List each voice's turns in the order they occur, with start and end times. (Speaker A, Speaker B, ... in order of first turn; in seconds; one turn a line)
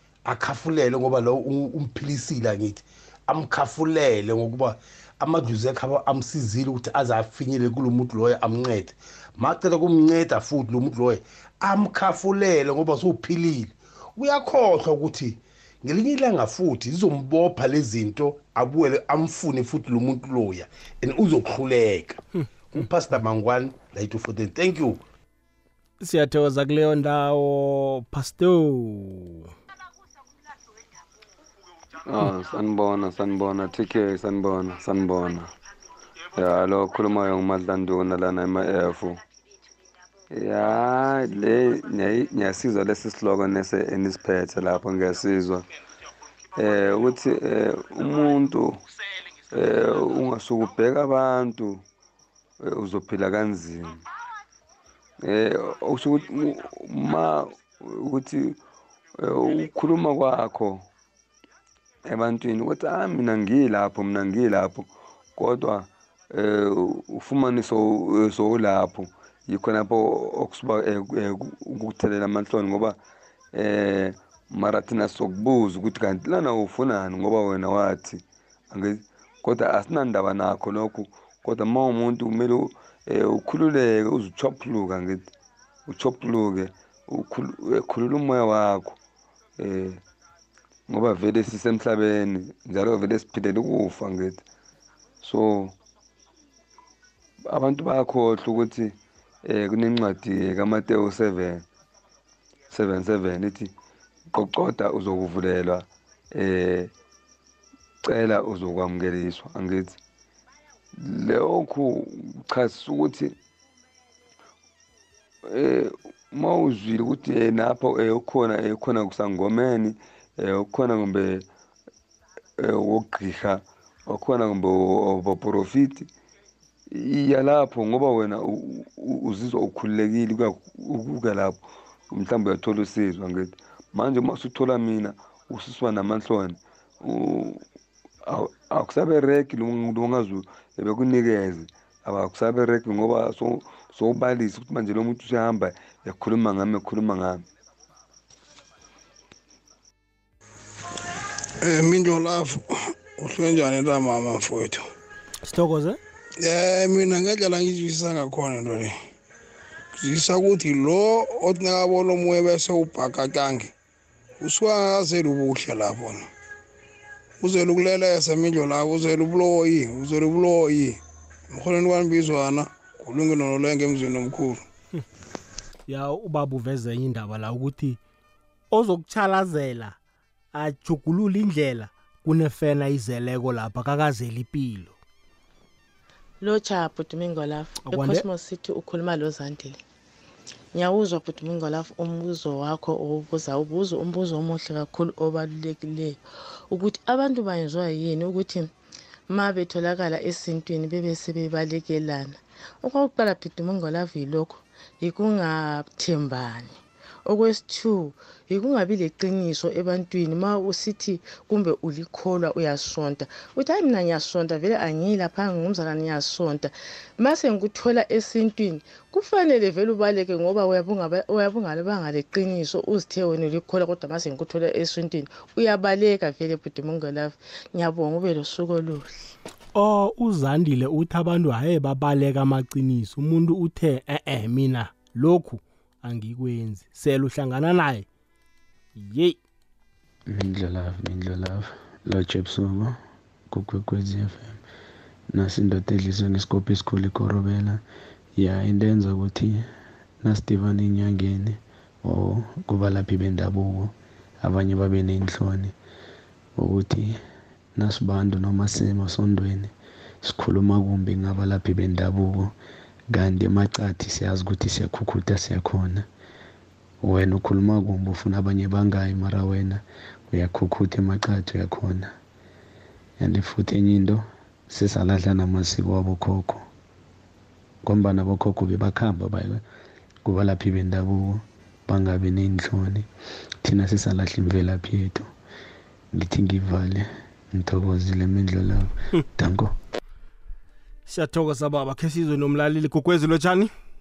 Speaker A: 0.3-22.2
Speaker A: 22.7-25.0
Speaker B: 26.0-29.5
Speaker C: 32.1-35.5
Speaker C: 36.4-39.2
Speaker C: 40.3-45.6
Speaker C: 46.6-48.8
Speaker C: 49.5-51.8
Speaker C: 52.6-54.0
Speaker C: 55.2-58.6
Speaker C: 59.2-60.9
Speaker C: 62.1-73.0
Speaker C: 73.5-85.3
Speaker C: 85.9-89.0
Speaker C: 89.6-90.0
Speaker C: 90.9-94.4
Speaker C: 95.2-95.8
Speaker C: 97.5-101.6
Speaker C: 102.7-103.7
Speaker C: 104.3-106.9
Speaker C: 108.1-110.0
Speaker C: 111.0-113.3
Speaker C: 115.5-121.5
Speaker C: 122.6-126.1
Speaker C: 126.9-137.6
Speaker C: 138.3-147.4
Speaker D: 151.6-154.9
Speaker B: 155.4-156.0
Speaker D: 156.4-158.9
Speaker D: 160.0-163.7
Speaker D: 164.4-166.3
Speaker D: 167.4-171.0
Speaker D: 171.5-174.6
Speaker B: 175.9-178.0
Speaker B: 178.7-180.0
Speaker B: 180.5-185.0
Speaker E: 186.4-189.8
Speaker B: 187.9-188.2
Speaker E: 190.8-198.7
Speaker E: 199.3-229.1
Speaker B: 229.8-238.1
Speaker B: 239.0-239.4
Speaker F: 240.3-243.0
Speaker F: 243.5-244.6
Speaker F: 245.3-247.8
Speaker F: 248.4-249.7
Speaker F: 250.2-255.7
Speaker F: 256.6-257.2
Speaker F: 257.8-262.5
Speaker F: 263.1-266.1
Speaker F: 267.0-272.1
Speaker F: 273.2-276.6
Speaker F: 277.9-279.6
Speaker F: 280.2-283.1
Speaker F: 283.6-285.3
Speaker F: 286.1-289.7
Speaker B: 291.1-293.7